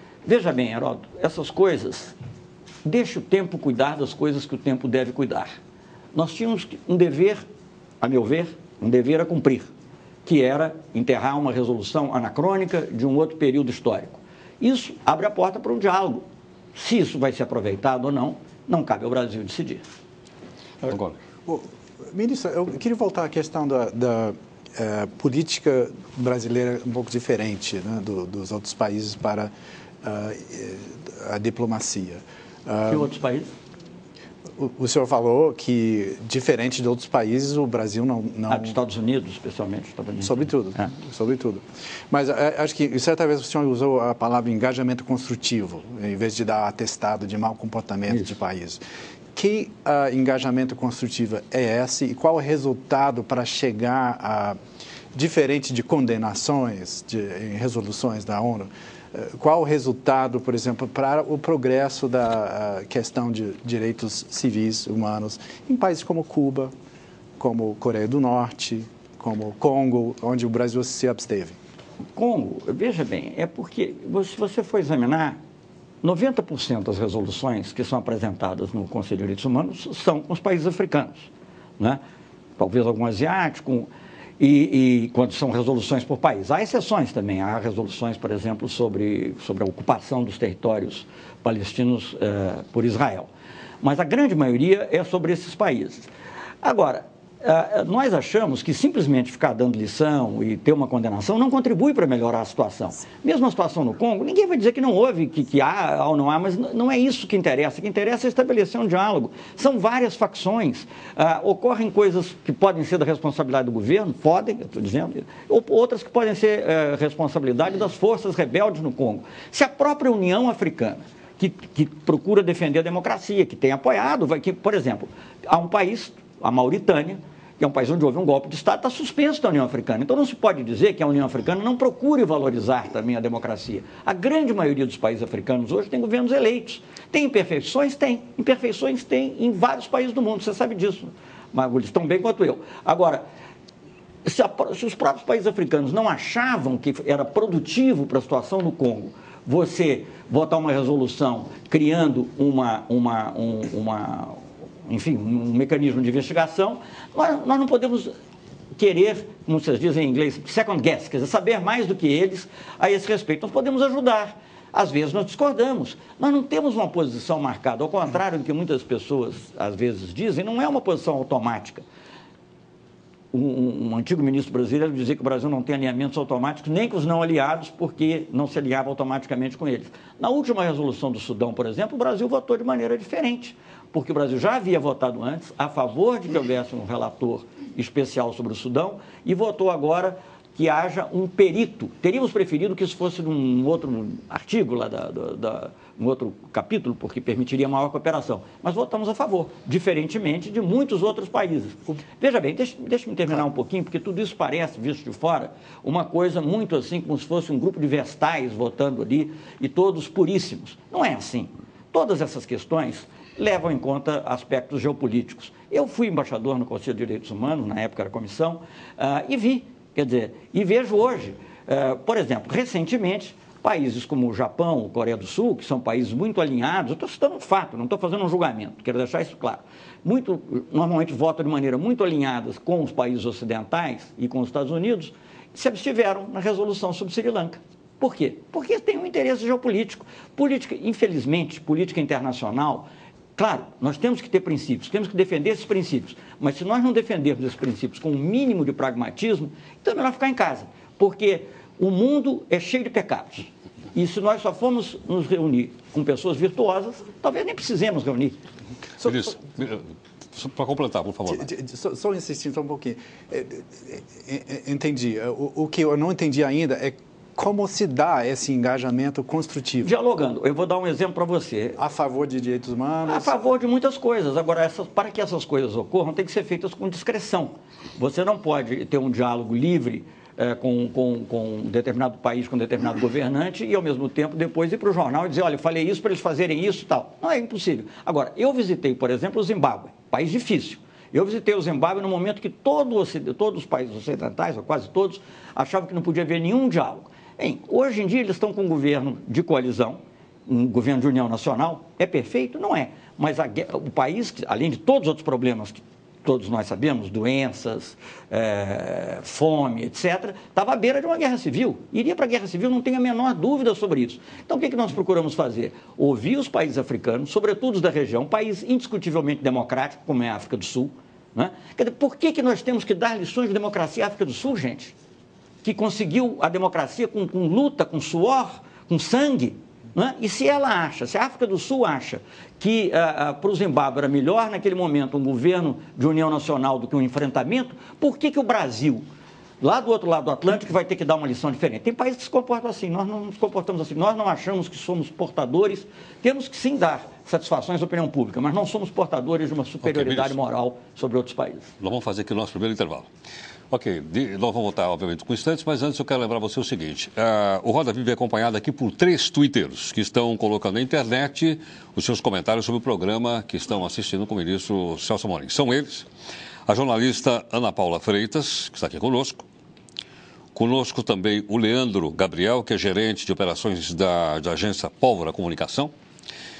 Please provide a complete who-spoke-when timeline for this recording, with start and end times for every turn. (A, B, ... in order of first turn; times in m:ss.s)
0:00.2-0:02.1 A
0:02.8-0:05.5 A
0:06.1-0:07.4 A
0:08.0-0:09.7 A
0:10.2-0:16.2 A
0:16.7-0:19.8 A
0:20.9-0:21.2 B
0:21.4-0:29.5 C
0:30.0-0:33.1 C
0:32.9-0:33.5 A
0:34.6-0:38.7 C
0:38.5-0:40.9 A
0:40.2-0:48.8 C
0:49.3-0:54.6 C
0:55.1-1:06.7 C
1:07.4-1:11.6 C
1:12.2-1:15.4 A
1:16.0-1:21.3 A
1:22.6-1:33.3 A
1:33.8-1:36.1 A
1:36.6-2:23.2 A
2:24.2-2:38.1 A
2:38.8-2:51.8 A
2:53.3-4:18.4 A
4:19.0-4:19.3 C
4:19.0-4:21.5 B
4:21.3-4:29.9 C
4:29.8-4:31.8 A
4:31.8-4:33.3 C
4:33.0-5:24.9 A
5:25.6-5:39.0 A
5:39.6-5:51.7 A
5:49.8-5:50.4 B
5:51.8-5:53.1 B
5:53.7-6:06.0 B
6:06.7-6:09.4 B
6:10.5-6:15.9 B